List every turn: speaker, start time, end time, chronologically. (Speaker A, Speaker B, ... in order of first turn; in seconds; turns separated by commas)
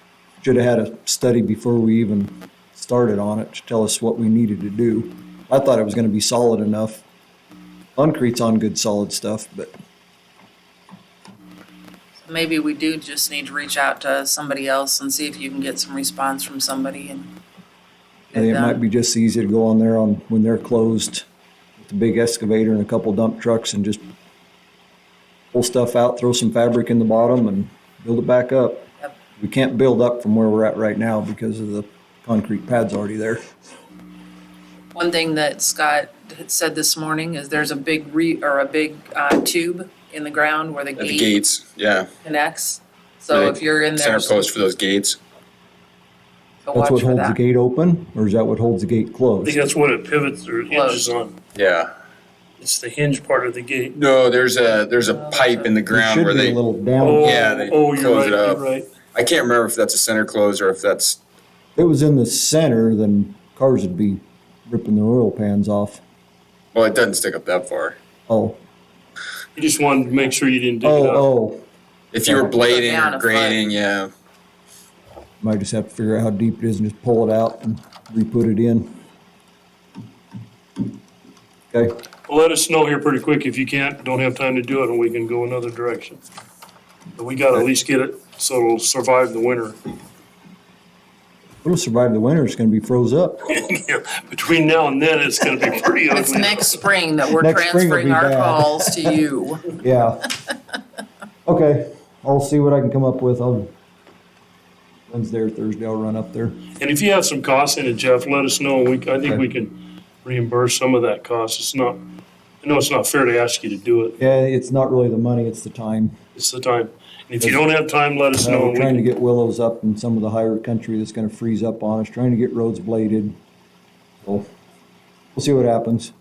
Speaker A: 0.4-7.0, Speaker A: 8.0-9.7, Speaker B: 12.2-17.3, Speaker B: 18.3-18.8, Speaker A: 18.4-21.2, Speaker A: 21.8-24.0, Speaker A: 25.5-28.9, Speaker A: 29.4-33.4, Speaker B: 34.9-41.3, Speaker C: 41.0-42.1, Speaker B: 42.2-44.5, Speaker C: 43.3-45.2, Speaker B: 46.6-47.4, Speaker A: 46.7-49.6, Speaker D: 49.4-51.4, Speaker B: 50.7-51.1, Speaker C: 51.5-51.9, Speaker D: 52.6-54.0, Speaker C: 53.9-56.6, Speaker B: 55.1-55.7, Speaker A: 55.9-57.5, Speaker D: 57.0-58.9, Speaker C: 57.2-58.6, Speaker C: 59.1-61.2, Speaker A: 61.8-66.0, Speaker C: 66.7-68.0, Speaker A: 68.3-68.6, Speaker D: 69.6-71.3, Speaker A: 70.8-71.6, Speaker C: 72.1-74.1, Speaker A: 72.3-72.5, Speaker B: 72.5-73.6, Speaker A: 75.4-79.0, Speaker D: 82.3-86.2, Speaker D: 87.2-89.8, Speaker A: 91.6-93.5, Speaker D: 93.5-96.8, Speaker B: 96.1-99.8, Speaker A: 97.4-99.2, Speaker A: 99.8-100.3, Speaker A: 101.5-103.7, Speaker A: 105.1-106.7, Speaker D: 106.8-112.0, Speaker D: 112.6-114.2, Speaker A: 114.2-116.2, Speaker D: 116.3-119.0, Speaker A: 117.4-117.7, Speaker A: 118.4-123.3, Speaker A: 124.2-124.5, Speaker A: 125.3-126.1